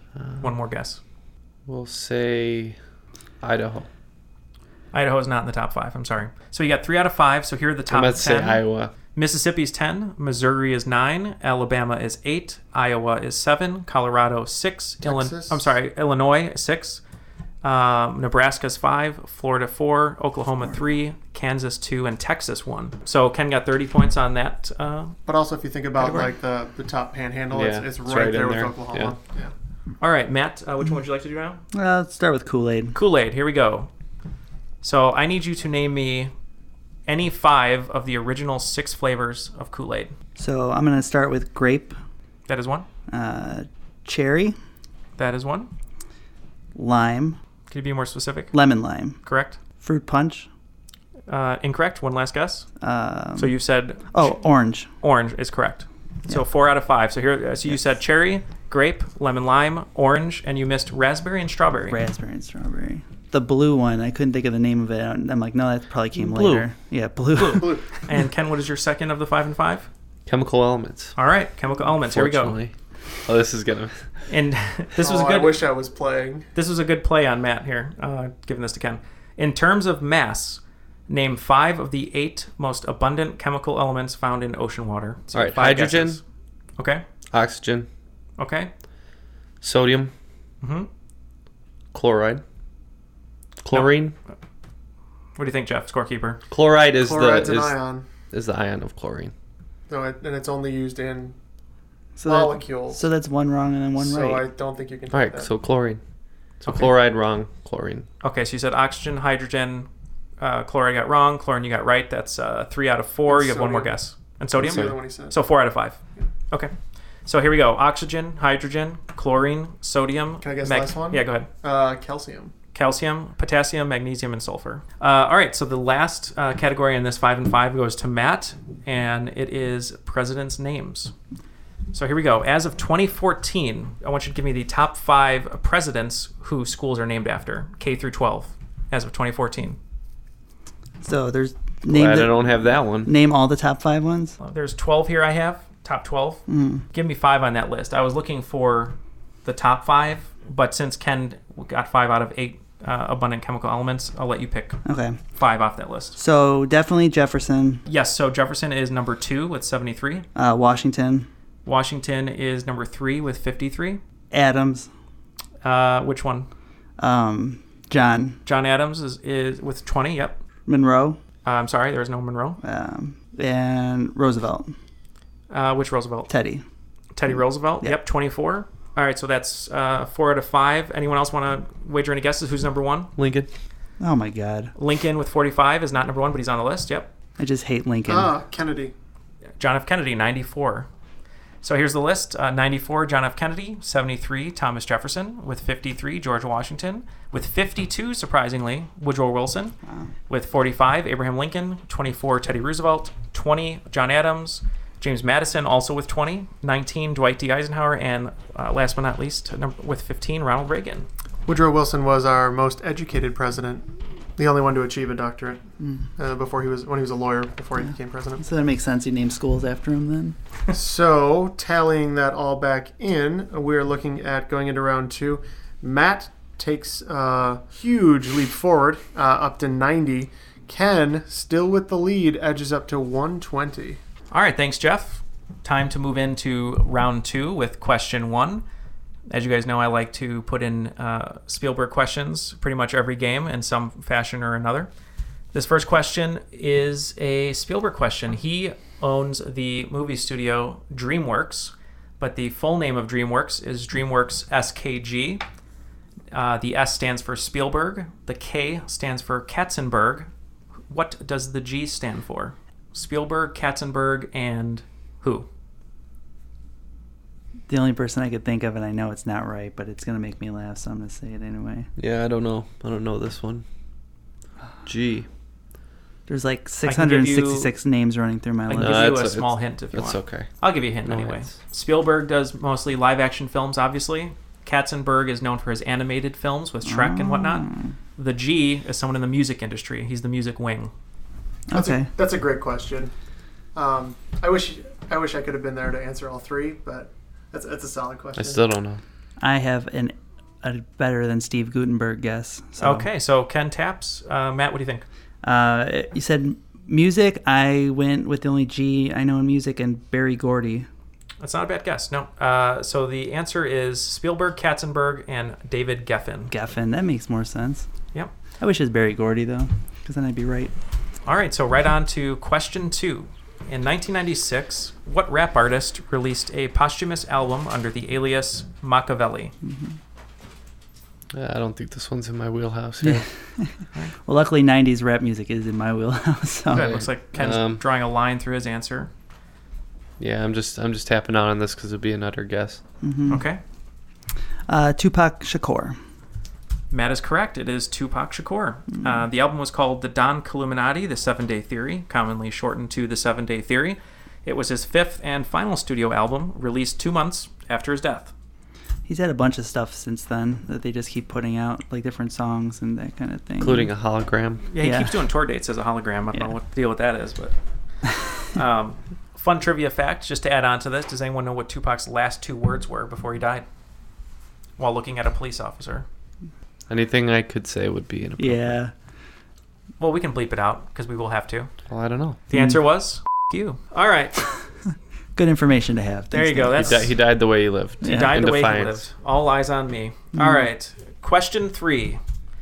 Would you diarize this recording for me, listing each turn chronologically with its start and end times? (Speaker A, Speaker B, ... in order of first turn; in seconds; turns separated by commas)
Speaker A: 0.1-0.5, Speaker B: 0.4-1.0, Speaker A: 1.6-2.8, Speaker A: 3.4-3.9, Speaker B: 4.9-8.6, Speaker A: 7.9-8.9, Speaker B: 9.1-17.0, Speaker C: 15.0-15.7, Speaker B: 17.6-25.2, Speaker C: 25.3-29.5, Speaker A: 27.5-29.1, Speaker B: 30.0-31.6, Speaker D: 31.7-33.0, Speaker B: 32.9-33.9, Speaker B: 34.8-36.3, Speaker B: 37.1-40.1, Speaker D: 40.4-42.0, Speaker B: 42.5-42.9, Speaker D: 43.1-44.6, Speaker B: 45.2-45.7, Speaker D: 46.7-47.4, Speaker B: 47.7-48.5, Speaker D: 48.5-49.2, Speaker B: 49.2-49.6, Speaker D: 49.8-50.5, Speaker B: 51.3-52.7, Speaker D: 52.8-53.5, Speaker B: 53.4-54.4, Speaker D: 54.1-54.9, Speaker B: 55.0-62.0, Speaker D: 61.9-67.8, Speaker A: 66.2-66.7, Speaker B: 67.3-69.9, Speaker C: 67.5-67.8, Speaker A: 70.2-71.2, Speaker B: 71.2-72.6, Speaker A: 72.0-72.7, Speaker A: 73.2-74.0, Speaker B: 74.3-75.6, Speaker C: 75.0-76.5, Speaker B: 76.5-86.2, Speaker A: 85.3-86.2, Speaker B: 86.8-87.0, Speaker A: 87.3-87.9, Speaker B: 88.4-88.7, Speaker A: 89.6-90.1, Speaker B: 90.6-90.9, Speaker A: 91.9-92.4, Speaker A: 93.6-94.1, Speaker B: 93.7-94.0, Speaker B: 95.4-96.4, Speaker A: 96.5-97.8, Speaker C: 97.0-98.0, Speaker A: 98.3-99.3, Speaker C: 99.9-101.3, Speaker D: 102.2-104.5, Speaker C: 102.2-103.0, Speaker C: 104.0-105.5, Speaker A: 105.1-106.0, Speaker A: 106.6-108.1, Speaker B: 108.2-109.9, Speaker B: 110.4-116.0, Speaker C: 113.2-114.0, Speaker C: 114.6-115.3, Speaker A: 114.6-114.9, Speaker B: 117.2-121.5, Speaker C: 120.4-122.5, Speaker B: 122.7-131.1, Speaker B: 131.9-139.8, Speaker D: 141.0-144.4, Speaker A: 141.9-143.1, Speaker B: 144.4-154.8, Speaker D: 146.5-146.8, Speaker D: 154.8-155.2, Speaker B: 155.4-156.2, Speaker D: 156.2-157.8, Speaker B: 157.9-160.2, Speaker D: 160.3-161.3, Speaker B: 161.7-164.0, Speaker D: 164.3-164.9, Speaker B: 165.6-166.5, Speaker D: 167.0-168.4, Speaker B: 168.4-170.4, Speaker D: 170.7-171.2, Speaker B: 171.4-172.6, Speaker D: 172.6-174.7, Speaker B: 175.5-176.3, Speaker D: 176.3-176.6, Speaker B: 177.1-183.1, Speaker A: 183.2-183.5, Speaker D: 184.0-184.7, Speaker B: 184.8-187.1, Speaker D: 187.4-188.3, Speaker C: 188.1-188.9, Speaker B: 189.6-190.9, Speaker B: 191.6-199.8, Speaker D: 199.8-200.1, Speaker B: 200.3-211.1, Speaker C: 211.5-215.6, Speaker D: 215.8-216.1, Speaker C: 216.2-218.4, Speaker D: 217.8-220.4, Speaker C: 220.7-234.0, Speaker B: 234.3-238.6, Speaker B: 239.3-244.9, Speaker B: 245.5-255.4, Speaker B: 256.3-260.3, Speaker B: 260.9-265.5, Speaker D: 267.7-271.9, Speaker A: 272.0-273.6, Speaker A: 274.9-275.3, Speaker D: 276.3-279.2, Speaker B: 276.9-277.7, Speaker B: 278.7-287.6, Speaker A: 278.8-280.5, Speaker A: 281.0-281.6, Speaker D: 286.8-287.9, Speaker B: 288.2-290.9, Speaker D: 291.7-292.1, Speaker C: 291.7-293.1, Speaker C: 293.7-298.6, Speaker A: 298.4-299.0, Speaker D: 299.4-303.1, Speaker B: 302.8-305.0, Speaker D: 305.4-310.9, Speaker B: 311.4-316.5, Speaker D: 316.5-317.9, Speaker D: 318.6-320.7, Speaker B: 321.2-329.5, Speaker D: 329.6-330.0, Speaker A: 331.3-333.3, Speaker D: 333.0-333.7, Speaker D: 334.2-337.0, Speaker B: 336.7-339.1, Speaker A: 336.8-337.8, Speaker A: 340.2-342.8, Speaker D: 343.0-343.4, Speaker B: 343.3-343.6, Speaker D: 344.7-346.0, Speaker B: 346.9-358.3, Speaker D: 359.1-363.9, Speaker A: 363.6-364.6, Speaker B: 364.7-367.5, Speaker D: 364.8-365.2, Speaker B: 368.5-373.6, Speaker B: 374.8-376.1, Speaker A: 376.9-378.8, Speaker D: 378.4-378.9, Speaker B: 380.0-381.7, Speaker A: 381.9-382.4, Speaker B: 382.5-384.4, Speaker D: 382.5-382.8, Speaker D: 385.4-387.0, Speaker B: 386.3-387.1, Speaker A: 386.8-389.0, Speaker D: 388.0-388.4, Speaker B: 388.0-392.2, Speaker D: 390.3-390.7